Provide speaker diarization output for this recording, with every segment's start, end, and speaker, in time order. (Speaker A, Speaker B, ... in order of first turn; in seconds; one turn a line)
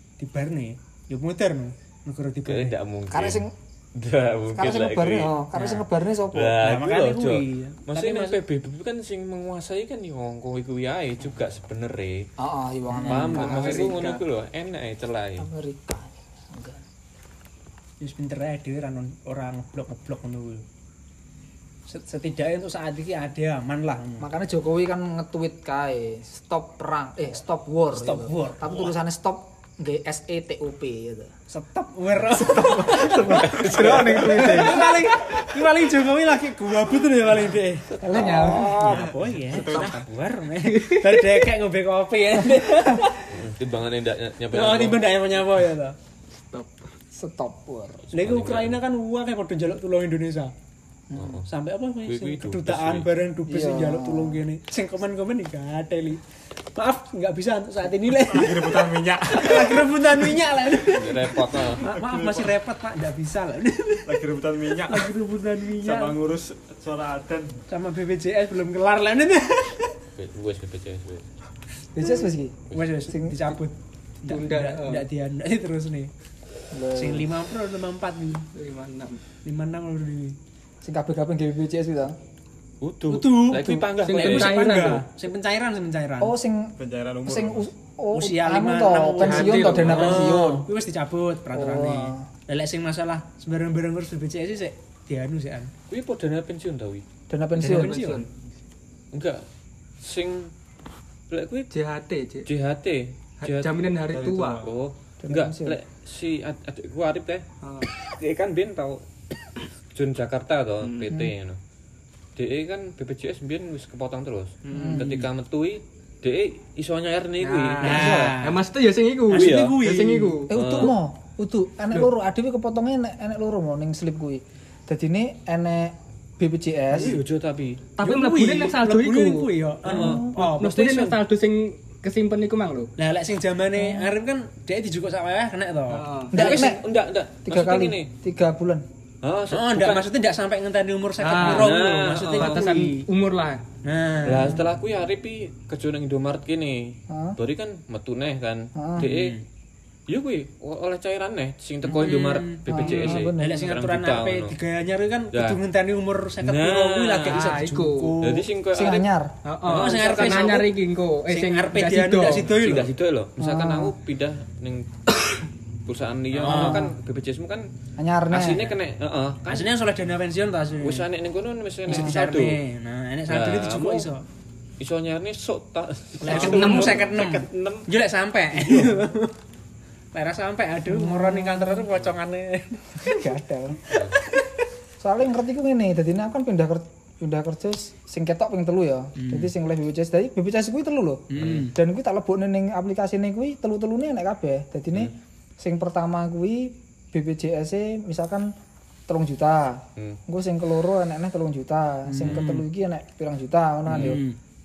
Speaker A: 0.2-2.8
Speaker B: 2.5-5.3
Speaker C: 3.1-3.5
Speaker C: 4.5-6.6
Speaker A: 5.5-5.9
Speaker B: 6.3-12.3
Speaker A: 6.6-8.4
Speaker C: 12.4-14.2
Speaker A: 12.9-13.7
Speaker B: 13.0-15.5
Speaker D: 13.5-14.1
Speaker C: 15.4-16.8
Speaker A: 18.0-20.7
Speaker A: 21.9-24.3
Speaker C: 24.2-31.3
Speaker A: 27.9-28.9
Speaker A: 31.5-43.4
Speaker D: 32.3-34.8
Speaker B: 33.4-34.6
Speaker B: 38.0-39.9
Speaker C: 38.0-39.1
Speaker E: 39.5-40.0
Speaker D: 39.6-39.9
Speaker D: 40.7-41.3
Speaker B: 43.3-45.0
Speaker A: 44.5-46.0
Speaker D: 46.4-46.9
Speaker C: 47.1-48.0
Speaker B: 48.1-48.8
Speaker A: 48.1-50.5
Speaker C: 51.1-51.4
Speaker B: 51.1-51.5
Speaker A: 51.5-56.2
Speaker B: 52.0-53.1
Speaker C: 53.5-54.4
Speaker A: 56.8-64.2
Speaker E: 58.2-60.5
Speaker B: 60.9-61.9
Speaker E: 61.8-62.6
Speaker E: 64.0-65.1
Speaker A: 64.8-66.2
Speaker E: 65.7-67.6
Speaker A: 67.7-70.0
Speaker B: 70.2-71.3
Speaker C: 72.0-73.6
Speaker A: 72.0-76.1
Speaker D: 74.3-75.1
Speaker C: 76.7-77.3
Speaker A: 76.9-78.5
Speaker D: 78.5-79.2
Speaker A: 79.4-80.4
Speaker C: 80.8-82.2
Speaker B: 82.8-85.0
Speaker A: 83.1-86.3
Speaker D: 84.0-85.0
Speaker C: 86.2-90.7
Speaker E: 86.8-87.7
Speaker A: 88.1-95.7
Speaker D: 89.2-90.4
Speaker C: 91.5-92.3
Speaker B: 95.9-97.0
Speaker C: 97.3-98.0
Speaker A: 97.6-98.2
Speaker D: 97.6-98.3
Speaker B: 99.1-99.4
Speaker B: 100.0-100.5
Speaker B: 101.3-101.7
Speaker D: 101.7-102.5
Speaker B: 102.5-103.9
Speaker D: 103.4-104.7
Speaker E: 104.1-104.7
Speaker B: 104.6-109.0
Speaker C: 105.2-105.8
Speaker D: 107.6-107.9
Speaker B: 110.0-111.6
Speaker D: 110.8-111.1
Speaker B: 112.4-118.4
Speaker D: 114.7-115.2
Speaker C: 114.7-115.2
Speaker D: 117.4-120.9
Speaker A: 117.8-118.6
Speaker A: 119.3-120.4
Speaker B: 119.3-119.7
Speaker C: 120.5-127.2
Speaker B: 120.5-121.0
Speaker B: 127.0-127.8
Speaker D: 128.0-129.5
Speaker A: 128.0-131.2
Speaker C: 129.9-130.3
Speaker B: 129.9-130.3
Speaker D: 130.4-132.9
Speaker A: 133.0-136.6
Speaker C: 133.8-134.1
Speaker D: 135.9-136.3
Speaker C: 136.3-136.8
Speaker B: 136.3-138.1
Speaker C: 137.4-138.8
Speaker B: 139.2-140.1
Speaker A: 139.5-143.1
Speaker D: 141.2-141.7
Speaker B: 141.4-142.7
Speaker D: 142.4-143.6
Speaker A: 143.8-144.6
Speaker B: 144.2-146.8
Speaker C: 144.3-144.7
Speaker C: 147.1-147.4
Speaker B: 147.4-149.4
Speaker C: 148.8-149.1
Speaker A: 149.0-149.4
Speaker B: 150.1-154.5
Speaker A: 151.9-158.4
Speaker C: 152.7-153.6
Speaker B: 155.3-155.6
Speaker B: 156.4-157.5
Speaker D: 157.3-158.3
Speaker B: 158.2-159.1
Speaker C: 158.7-159.3
Speaker D: 159.4-162.5
Speaker A: 159.7-160.7
Speaker A: 161.3-162.9
Speaker B: 162.4-167.7
Speaker C: 163.4-163.9
Speaker A: 166.4-166.8
Speaker C: 166.4-166.9
Speaker C: 168.0-168.7
Speaker B: 168.3-169.7
Speaker A: 169.5-171.1
Speaker B: 170.8-172.6
Speaker C: 171.9-172.2
Speaker A: 171.9-174.2
Speaker B: 173.3-174.1
Speaker B: 174.8-177.9
Speaker A: 176.2-179.3
Speaker D: 176.2-177.0
Speaker A: 180.1-183.3
Speaker C: 180.9-181.9
Speaker C: 183.1-183.8
Speaker B: 183.9-184.2
Speaker A: 184.3-184.6
Speaker C: 185.0-198.5
Speaker A: 189.2-189.5
Speaker A: 191.3-191.7
Speaker B: 191.4-191.7
Speaker C: 199.1-204.2
Speaker A: 202.1-202.7
Speaker A: 203.9-204.4